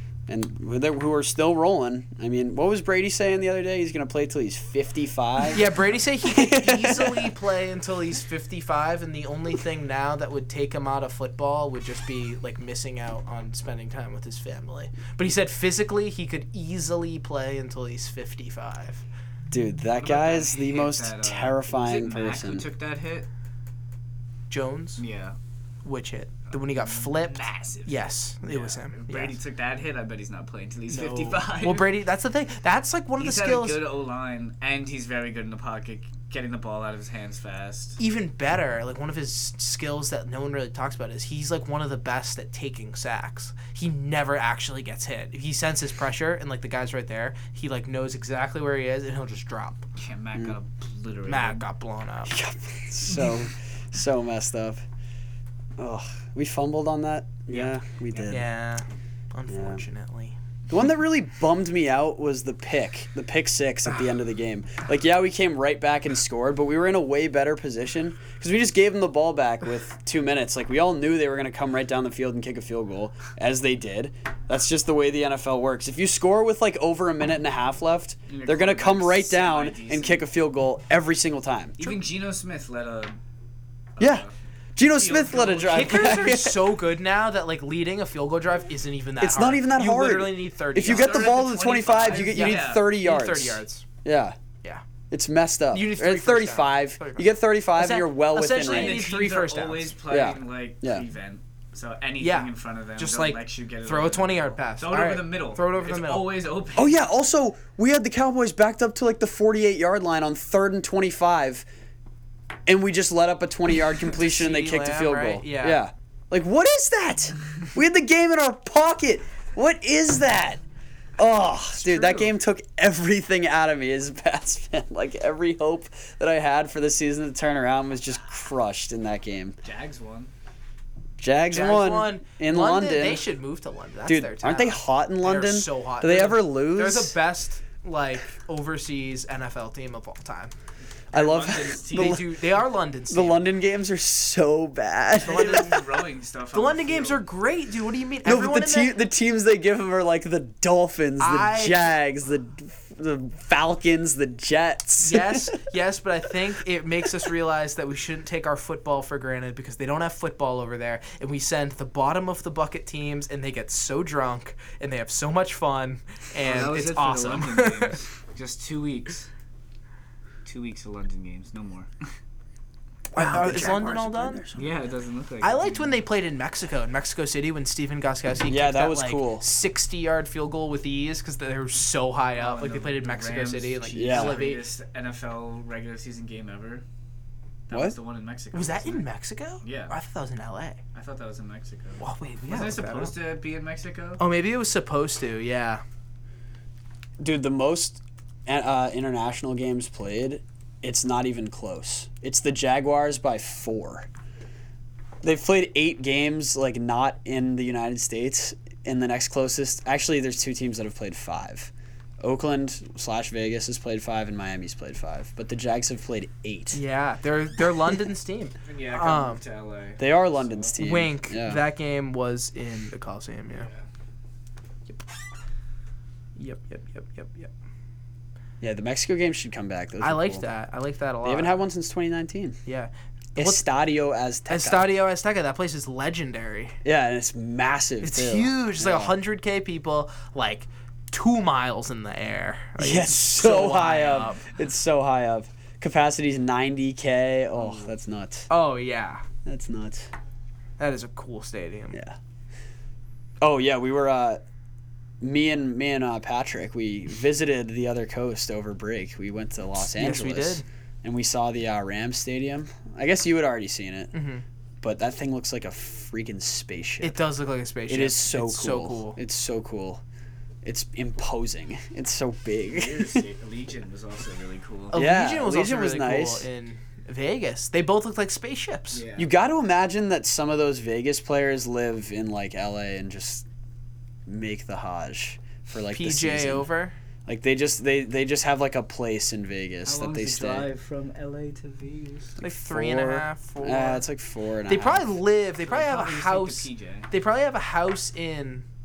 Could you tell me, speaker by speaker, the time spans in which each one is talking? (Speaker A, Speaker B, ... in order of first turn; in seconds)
Speaker A: 0.3-5.7, 6.2-7.3, 19.5-22.7, 52.3-54.8, 55.8-58.5, 59.5-59.8, 60.7-81.8, 84.0-86.6, 89.2-94.3, 95.1-99.0, 100.1-101.0, 106.8-111.6, 112.7-120.6, 121.2-129.6, 131.2-133.2, 134.1-137.1, 141.1-142.3, 143.1-145.7, 148.2-155.6, 173.1-174.8, 178.5-179.4, 183.9-184.4, 187.7-187.9, 197.2-204.1, 205.2-216.8, 220.0-221.6, 228.6-230.4, 231.2-232.6, 233.3-234.9, 236.8-239.1, 242.8-248.5, 249.4-250.1, 253.4-254.4, 255.2-264.1, 264.8-267.2, 267.9-270.0, 270.6-273.2, 274.9-276.4, 279.2-283.4, 284.2-286.7, 287.2-290.7, 292.6-295.1
Speaker B: 5.5-19.0, 24.5-25.0, 25.8-29.4, 30.9-33.8, 38.0-49.9, 51.3-52.3, 58.3-60.4, 85.7-93.8, 95.7-99.9, 102.2-106.3, 114.1-115.8, 121.7-122.3, 131.5-140.5, 141.8-143.4, 145.2-145.8, 146.5-148.9, 151.2-151.9, 155.0-168.0, 173.1-174.4, 175.4-184.6, 188.5-190.8, 192.0-193.2, 194.2-195.8, 216.7-219.4, 220.8-223.7, 226.4-227.5, 230.0-231.5, 232.7-233.6, 234.5-236.8, 238.0-244.4, 248.5-249.2, 250.8-252.0, 259.8-260.6, 264.1-264.4, 267.0-269.2, 274.9-279.0, 285.9-286.9, 292.4-294.0, 294.7-298.6
Speaker C: 20.0-23.3, 25.0-25.4, 26.5-31.9, 33.2-38.0, 49.9-51.6, 57.5-58.3, 78.3-80.3, 81.8-83.2, 84.0-84.3, 84.9-86.2, 90.8-92.9, 98.6-107.0, 129.6-130.3, 141.1-142.2, 145.2-147.2, 166.4-169.3, 170.4-171.9, 174.5-176.0, 182.3-186.8, 187.7-189.0, 189.6-189.9, 190.9-194.2, 218.6-220.8, 223.5-223.8, 272.7-275.0, 278.9-279.3, 289.9-292.4, 295.6-297.1